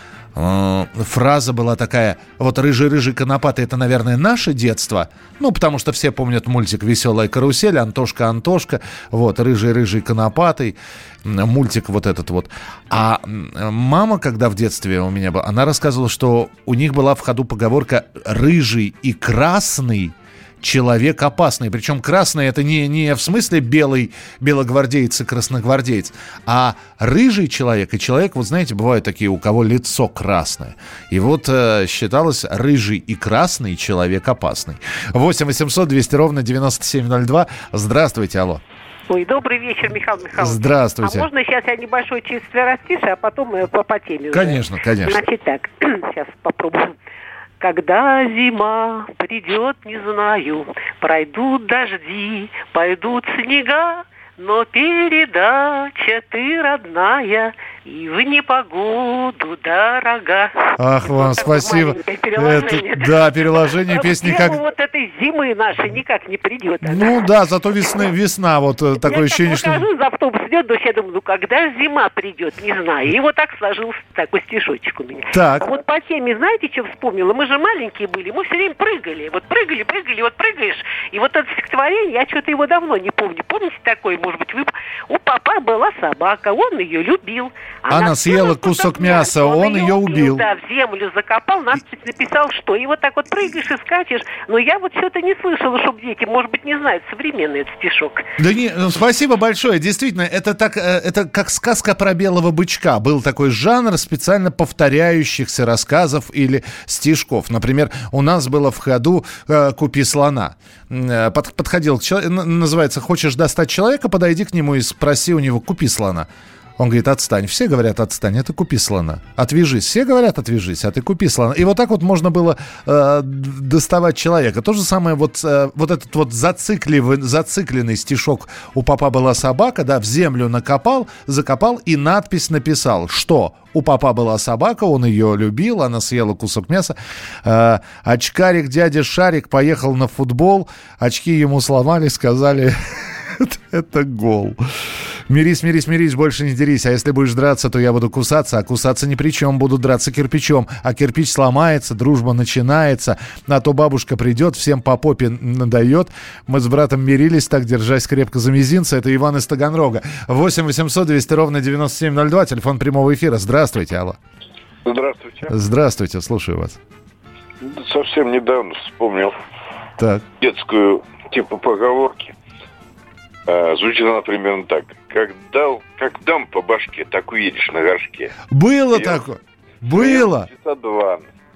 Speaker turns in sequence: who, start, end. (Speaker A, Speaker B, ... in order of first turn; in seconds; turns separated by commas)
Speaker A: 0.3-38.6, Speaker B: 39.1-47.0, Speaker A: 40.4-41.3, Speaker A: 44.3-45.2, Speaker B: 47.6-67.2, Speaker A: 60.8-64.6, Speaker A: 66.8-69.8, Speaker B: 69.0-98.2, Speaker A: 75.3-75.7, Speaker A: 87.9-90.4, Speaker A: 98.4-142.8, Speaker A: 143.3-144.6, Speaker A: 145.3-164.2, Speaker C: 164.9-165.5, Speaker A: 165.5-166.8, Speaker C: 167.6-169.3, Speaker A: 170.0-170.2, Speaker C: 170.4-172.3, Speaker C: 173.5-178.3, Speaker A: 178.5-180.5, Speaker C: 178.9-179.2, Speaker C: 179.9-181.2